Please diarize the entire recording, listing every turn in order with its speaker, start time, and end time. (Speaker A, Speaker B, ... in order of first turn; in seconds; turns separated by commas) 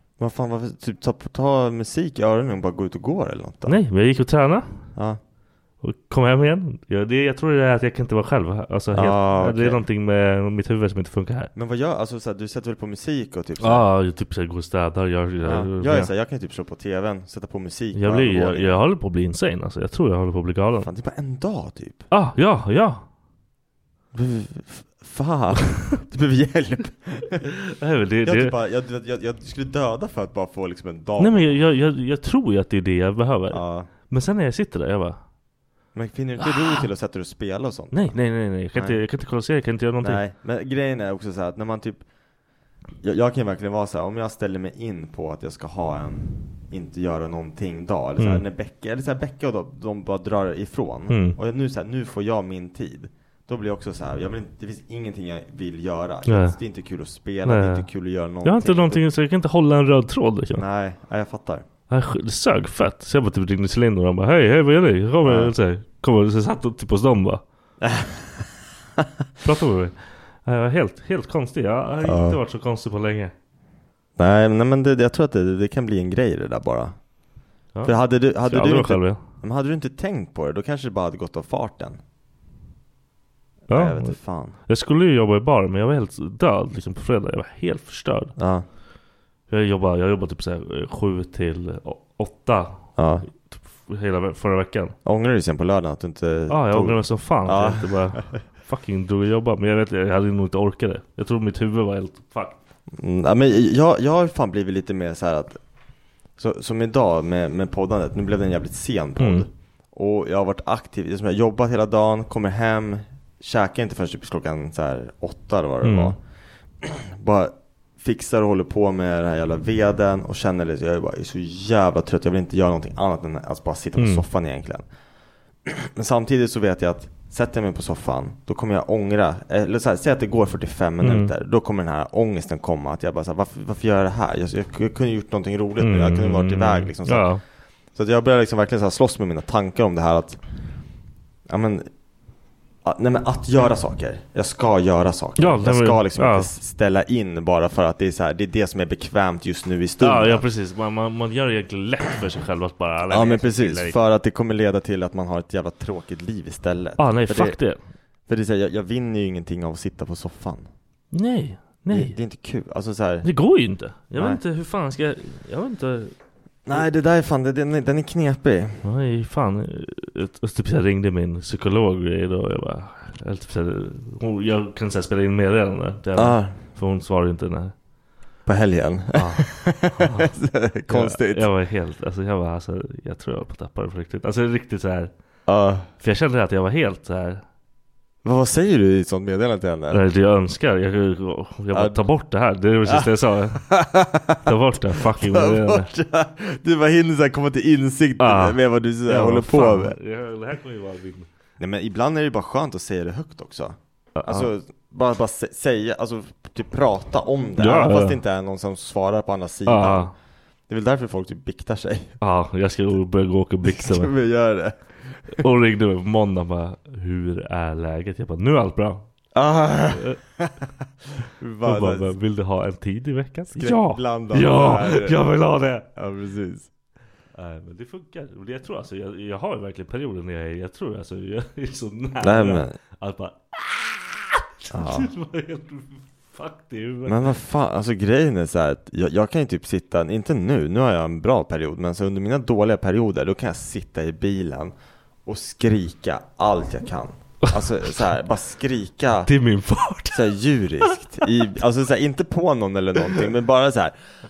Speaker A: 0.2-3.8, Speaker B: 3.7-4.8, Speaker B: 5.8-11.5, Speaker A: 8.9-9.8, Speaker A: 11.6-13.8, Speaker B: 13.6-16.1, Speaker A: 15.4-18.8, Speaker B: 17.9-20.9, Speaker A: 20.8-22.1, Speaker B: 22.1-23.1, Speaker A: 24.1-27.4, Speaker B: 27.8-28.6, Speaker A: 28.2-31.5, Speaker B: 31.2-35.2, Speaker A: 33.5-33.9, Speaker A: 35.9-38.2, Speaker B: 37.9-40.2, Speaker A: 40.0-42.0, Speaker A: 43.0-59.0, Speaker B: 48.2-48.4, Speaker B: 51.1-51.4, Speaker B: 56.3-56.6, Speaker B: 57.5-57.9, Speaker B: 58.4-60.6, Speaker A: 60.5-61.6, Speaker B: 61.9-67.4, Speaker A: 65.2-65.5, Speaker A: 67.8-68.5, Speaker B: 69.4-73.3, Speaker A: 72.0-72.4, Speaker A: 74.2-77.0, Speaker B: 77.8-79.2, Speaker A: 77.8-82.0, Speaker A: 83.7-84.6, Speaker B: 83.7-84.2, Speaker B: 84.7-88.3, Speaker A: 88.4-88.7, Speaker B: 89.5-92.8, Speaker A: 93.0-93.3, Speaker B: 93.4-95.0, Speaker A: 95.0-98.4, Speaker B: 96.5-102.6, Speaker A: 102.9-105.6, Speaker A: 106.4-116.2, Speaker B: 109.2-109.5, Speaker B: 115.8-116.2, Speaker A: 116.8-124.8, Speaker B: 124.0-124.2, Speaker A: 125.6-137.3, Speaker B: 131.0-131.3, Speaker B: 135.8-137.4, Speaker A: 137.9-140.4, Speaker A: 141.5-141.9, Speaker A: 142.8-150.4, Speaker B: 145.4-146.5, Speaker B: 150.0-154.0, Speaker A: 153.1-157.6, Speaker B: 157.0-157.8, Speaker A: 158.3-160.7, Speaker B: 161.1-162.2, Speaker A: 161.9-163.3, Speaker B: 163.2-166.2, Speaker A: 164.1-164.4, Speaker A: 166.7-168.8, Speaker B: 168.8-177.7, Speaker A: 176.2-176.6, Speaker A: 178.5-181.5, Speaker B: 179.2-180.3, Speaker B: 180.9-185.1, Speaker A: 185.5-185.9, Speaker B: 186.0-187.4, Speaker A: 188.2-190.0, Speaker B: 189.9-193.7, Speaker A: 191.7-192.0, Speaker A: 192.9-200.0, Speaker B: 194.5-195.9, Speaker B: 198.2-201.3, Speaker A: 201.6-210.1, Speaker B: 204.2-204.5, Speaker B: 207.6-208.2, Speaker B: 209.7-210.1, Speaker A: 210.7-212.1, Speaker B: 212.2-214.1, Speaker A: 213.6-214.8, Speaker B: 215.3-219.1, Speaker A: 219.3-222.1, Speaker B: 219.9-220.2, Speaker B: 221.6-225.9, Speaker A: 223.6-225.2, Speaker A: 225.9-226.7, Speaker B: 227.4-237.2, Speaker A: 232.2-232.8, Speaker A: 234.7-235.1, Speaker A: 237.1-244.7, Speaker A: 245.2-249.3, Speaker B: 249.3-250.3, Speaker A: 250.1-254.2, Speaker B: 250.9-251.2